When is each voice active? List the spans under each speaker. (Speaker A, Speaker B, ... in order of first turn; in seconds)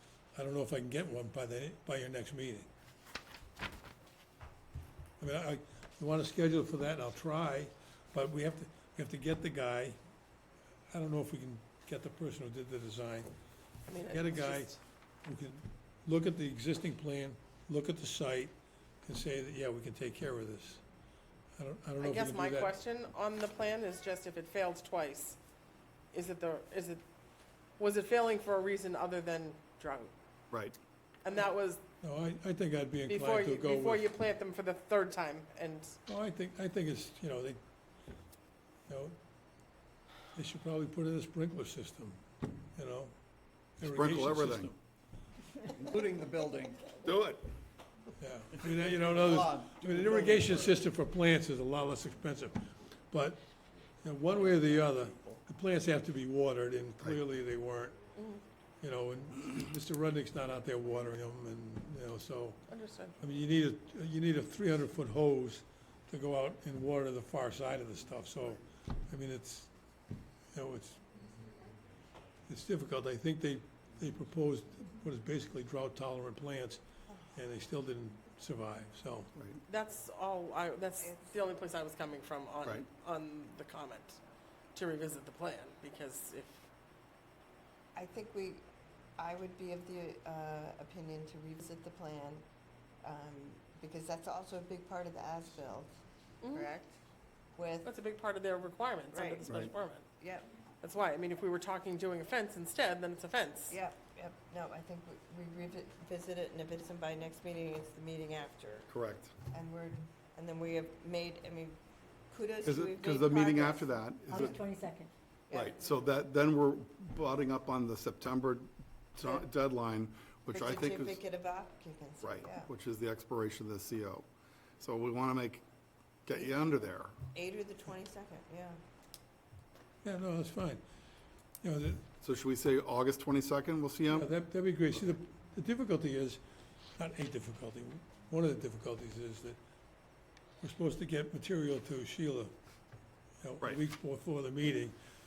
Speaker A: 0.3-2.7, 5.2-10.0, 10.9-13.3, 14.1-20.8, 21.6-22.7, 32.0-34.1, 36.1-37.6, 38.9-39.2, 40.3-42.2, 42.8-43.1, 43.8-44.8, 48.2-53.4, 54.0-58.0, 58.8-62.6, 63.2-69.7, 70.5-71.0, 72.5-76.8, 77.3-79.3, 130.0-130.8, 131.6-132.1, 134.1-136.4, 137.0-139.6, 140.6-142.5, 143.4-145.0
Speaker B: 13.9-14.8, 22.0-25.4, 26.1-27.0, 27.8-30.1, 31.2-31.8, 33.1-36.0, 58.2-58.5, 62.7-63.2, 79.7-84.2, 84.8-86.7, 96.4-96.7, 97.8-100.1, 100.8-103.8
Speaker C: 30.5-30.8, 43.9-44.7, 47.0-47.5, 99.5-99.7, 108.9-109.3, 112.6-114.7, 115.5-121.2, 122.2-124.3, 124.8-125.6, 126.3-127.2, 132.2-134.3
Speaker D: 45.7-47.0, 48.6-50.8, 54.7-55.4
Speaker E: 81.0-81.5, 88.0-88.7, 89.2-92.4, 93.0-97.0, 97.5-97.9, 99.1-99.6, 100.2-100.5, 103.7-108.9, 109.5-114.7, 115.5-115.8, 120.5-122.7, 127.3-128.8